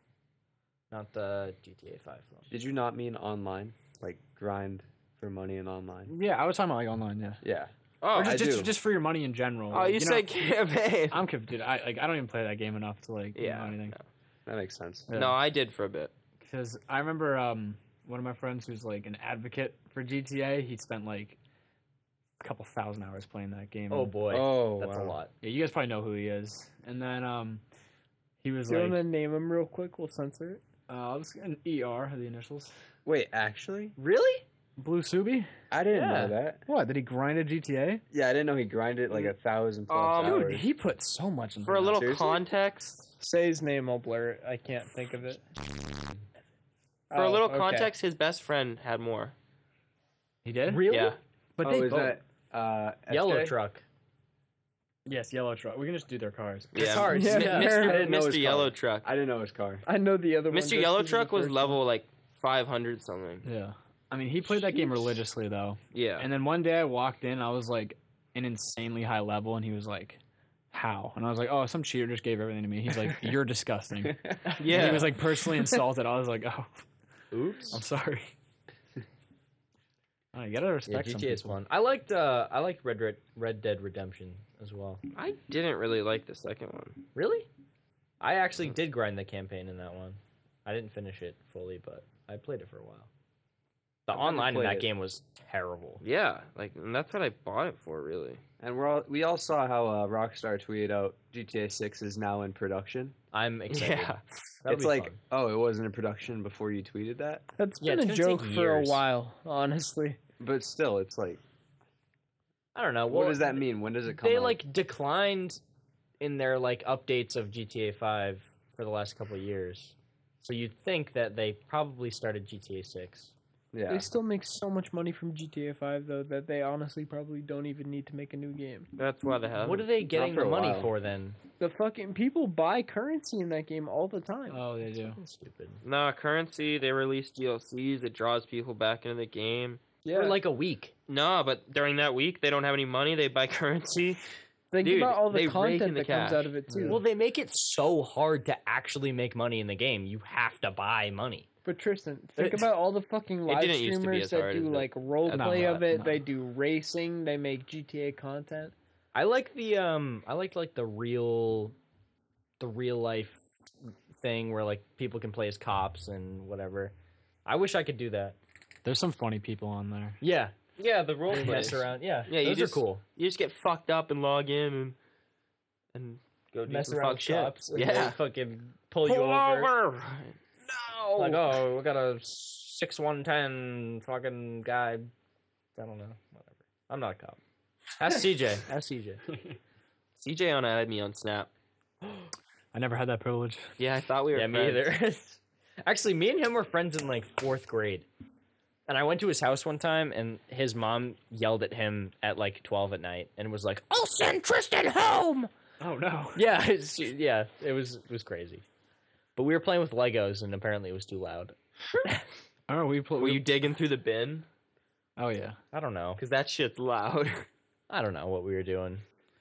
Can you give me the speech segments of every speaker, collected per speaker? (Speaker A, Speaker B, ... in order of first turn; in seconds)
Speaker A: 0.9-2.5, 23.9-25.3, 34.0-34.4, 35.9-36.4, 40.2-40.6, 50.7-52.1, 53.1-53.8, 56.8-57.9, 74.7-75.0, 77.3-77.8, 80.9-85.0, 87.2-87.5, 88.2-93.1, 94.1-96.0, 103.3-105.2, 107.8-109.0, 112.8-115.6, 116.2-123.3, 129.6-131.4, 135.1-135.8, 140.1-140.9, 146.8-151.5, 155.3-155.8, 159.1-161.8, 162.6-166.9, 167.5-168.4, 170.2-173.0, 176.7-179.7, 181.2-185.1, 185.8-187.4, 188.0-189.2, 194.3-198.1, 198.9-205.5, 206.3-208.6, 209.4-212.2, 215.7-216.2, 217.9-219.0
Speaker B: 2.5-6.1, 7.4-8.7, 14.5-15.2, 24.3-25.2, 33.0-34.0, 35.7-36.6, 38.1-40.7, 41.9-42.5, 51.6-53.5, 57.5-59.8, 94.1-94.9, 98.6-103.2, 104.7-107.5, 110.4-111.4, 113.1-114.6, 123.7-124.1, 130.1-130.9
Speaker C: 6.1-7.4, 8.2-10.3, 11.1-14.0, 15.1-15.4, 16.4-21.4, 22.4-24.2, 25.4-27.6, 28.4-29.0, 30.9-32.7, 34.8-35.5, 36.7-38.0, 40.4-42.1, 50.5-50.8, 51.6-52.1, 55.1-56.8, 63.4-70.2, 70.7-76.8, 77.7-78.3, 80.3-81.6, 134.5-135.2, 146.7-147.0, 155.3-156.2, 168.8-170.2, 192.7-193.8, 205.8-206.5, 212.7-213.4, 215.2-215.6
Speaker D: 8.0-8.5, 9.7-11.2, 13.4-14.0, 15.1-16.1, 39.9-40.5, 41.6-43.0, 47.1-49.4, 50.9-51.2, 56.7-59.1, 60.5-63.5, 65.9-66.3, 74.5-75.2, 85.1-87.1, 96.0-98.4, 103.7-104.2, 129.0-129.9, 135.8-139.9, 141.1-144.2, 144.8-146.5, 153.5-154.9, 170.8-175.0, 175.9-178.2, 179.1-181.6, 190.2-191.5, 193.8-194.9, 213.2-214.5, 216.2-217.5
Speaker E: 28.7-30.6, 43.2-45.4, 47.1-47.9, 57.0-58.1, 59.9-61.8, 107.6-110.2, 123.9-128.9, 131.6-134.6, 144.7-147.0, 151.7-158.8